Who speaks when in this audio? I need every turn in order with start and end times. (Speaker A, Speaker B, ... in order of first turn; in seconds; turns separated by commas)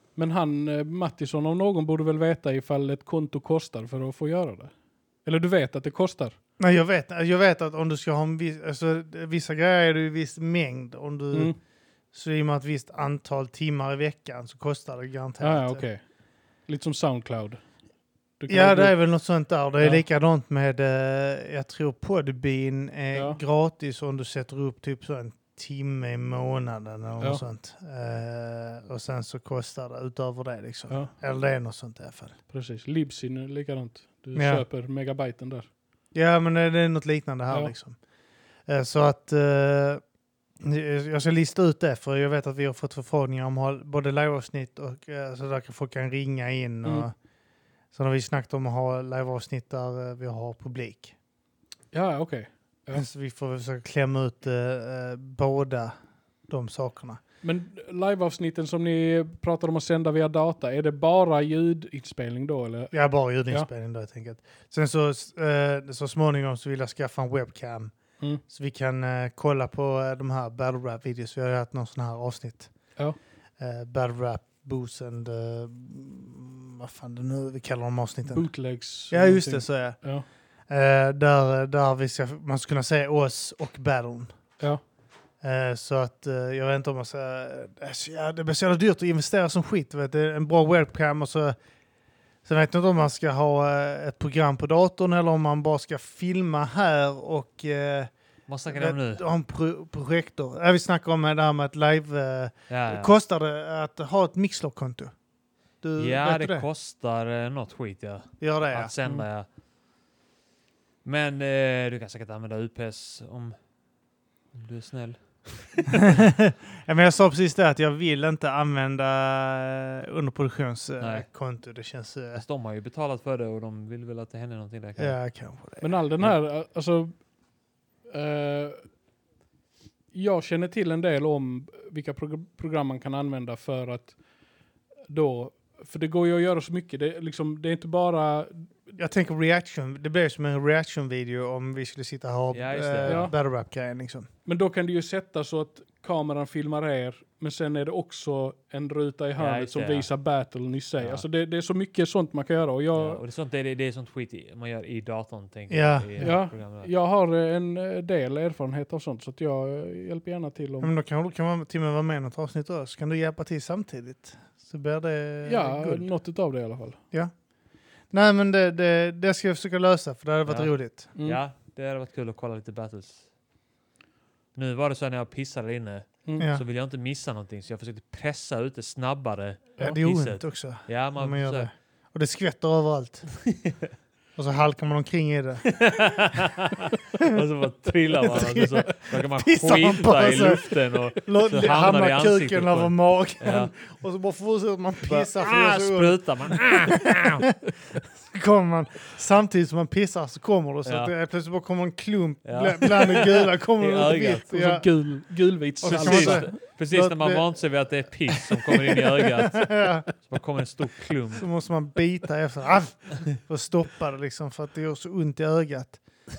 Speaker A: 0.1-6.3, Speaker B: 6.6-11.6, Speaker A: 11.3-11.6, Speaker B: 12.1-15.8, Speaker A: 15.4-16.1, Speaker A: 16.6-17.6, Speaker A: 18.4-19.0, Speaker B: 18.5-32.4, Speaker A: 23.1-23.4, Speaker A: 32.5-35.7, Speaker B: 34.3-34.6, Speaker B: 36.1-38.0, Speaker B: 38.6-40.0, Speaker B: 40.6-47.1, Speaker B: 47.9-51.1, Speaker A: 51.9-53.0, Speaker B: 52.9-55.9, Speaker B: 56.5-57.2, Speaker A: 57.4-62.9, Speaker B: 62.9-72.7, Speaker B: 73.6-78.5, Speaker A: 78.3-80.2, Speaker B: 79.1-80.1, Speaker B: 80.7-84.4, Speaker B: 85.4-91.5, Speaker B: 92.4-98.1, Speaker C: 98.5-99.2, Speaker B: 98.7-105.1, Speaker C: 102.7-103.1, Speaker B: 105.8-106.6, Speaker C: 106.0-109.5, Speaker B: 108.4-108.9, Speaker C: 111.0-113.6, Speaker C: 114.5-116.0, Speaker B: 116.0-122.4, Speaker C: 121.0-121.3, Speaker C: 122.3-125.3, Speaker B: 125.0-126.0, Speaker A: 125.8-127.3, Speaker A: 128.1-128.8, Speaker A: 130.1-134.2, Speaker A: 135.1-138.7, Speaker B: 139.0-144.3, Speaker C: 142.5-143.3, Speaker A: 143.1-143.3, Speaker A: 144.4-153.2, Speaker C: 149.4-150.1, Speaker C: 151.0-151.2, Speaker C: 152.9-156.9, Speaker B: 155.7-156.3, Speaker A: 156.2-160.9, Speaker B: 160.8-166.1, Speaker A: 165.4-167.0, Speaker B: 168.1-171.1, Speaker C: 170.4-173.3, Speaker A: 171.1-171.4, Speaker C: 174.5-181.7, Speaker B: 176.4-176.6, Speaker B: 179.8-183.4, Speaker B: 184.3-185.9, Speaker C: 185.7-193.7, Speaker B: 188.3-197.4, Speaker C: 195.1-197.5, Speaker B: 198.3-205.1, Speaker C: 200.8-201.1, Speaker C: 202.4-204.5, Speaker A: 204.5-206.5, Speaker B: 205.8-207.8, Speaker C: 205.8-211.4, Speaker B: 208.3-210.1, Speaker B: 211.4-216.0